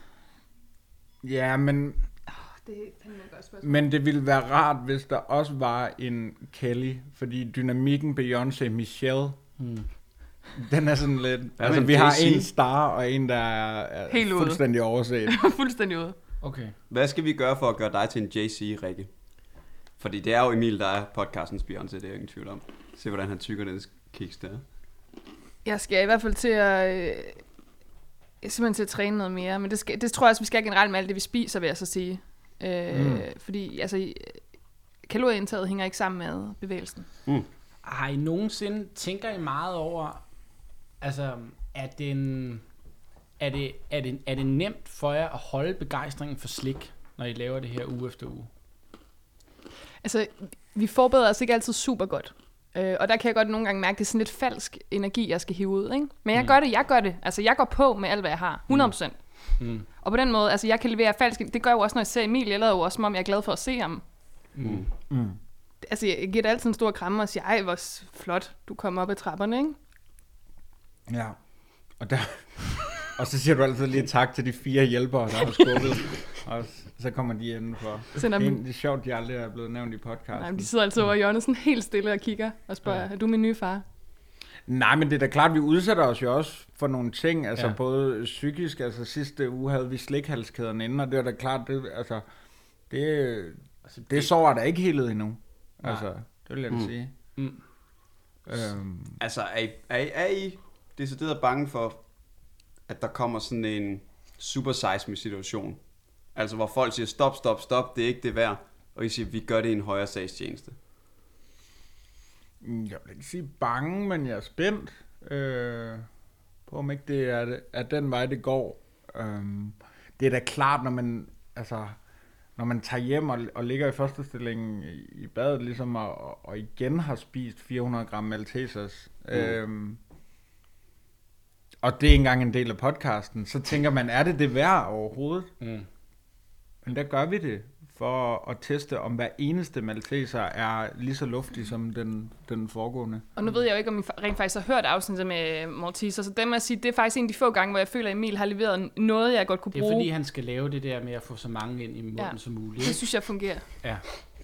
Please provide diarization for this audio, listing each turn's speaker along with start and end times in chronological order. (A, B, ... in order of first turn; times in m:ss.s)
0:01.2-0:02.0 A
0:02.3-0:03.8 B
0:03.6-0:09.4 A
0:09.6-0:09.9 C
0:10.6-0:15.4 A
0:11.6-0:12.5 D
0:14.1-0:14.6 B
0:15.3-0:16.2 B
0:16.4-0:16.7 C
0:16.9-0:19.1 D
0:20.0-0:24.6 D
0:25.6-0:27.4 B
0:28.4-0:34.4 B
0:32.9-0:33.2 A
0:35.1-0:37.1 B
0:37.8-0:40.2 C
0:41.0-0:42.6 C
0:43.4-0:48.5 C
0:50.0-0:59.2 B
0:59.6-0:59.9 C
1:00.0-1:04.0 B
1:04.6-1:04.8 C
1:05.1-1:05.4 A
1:05.8-1:09.8 B
1:11.1-1:11.4 A
1:12.0-1:20.7 A
1:18.2-1:18.6 B
1:20.3-1:23.8 B
1:24.7-1:32.2 A
1:32.9-1:37.1 A
1:33.9-1:34.3 C
1:38.5-1:39.2 A
1:39.2-1:42.0 D
1:42.9-1:45.8 D
1:46.4-1:50.8 D
1:52.6-1:56.1 A
1:56.7-2:02.0 A
2:02.6-2:10.0 A
2:11.8-2:15.5 A
2:15.6-2:15.9 C
2:16.8-2:23.2 A
2:23.4-2:30.1 B
2:29.7-2:33.0 C
2:32.2-2:33.6 B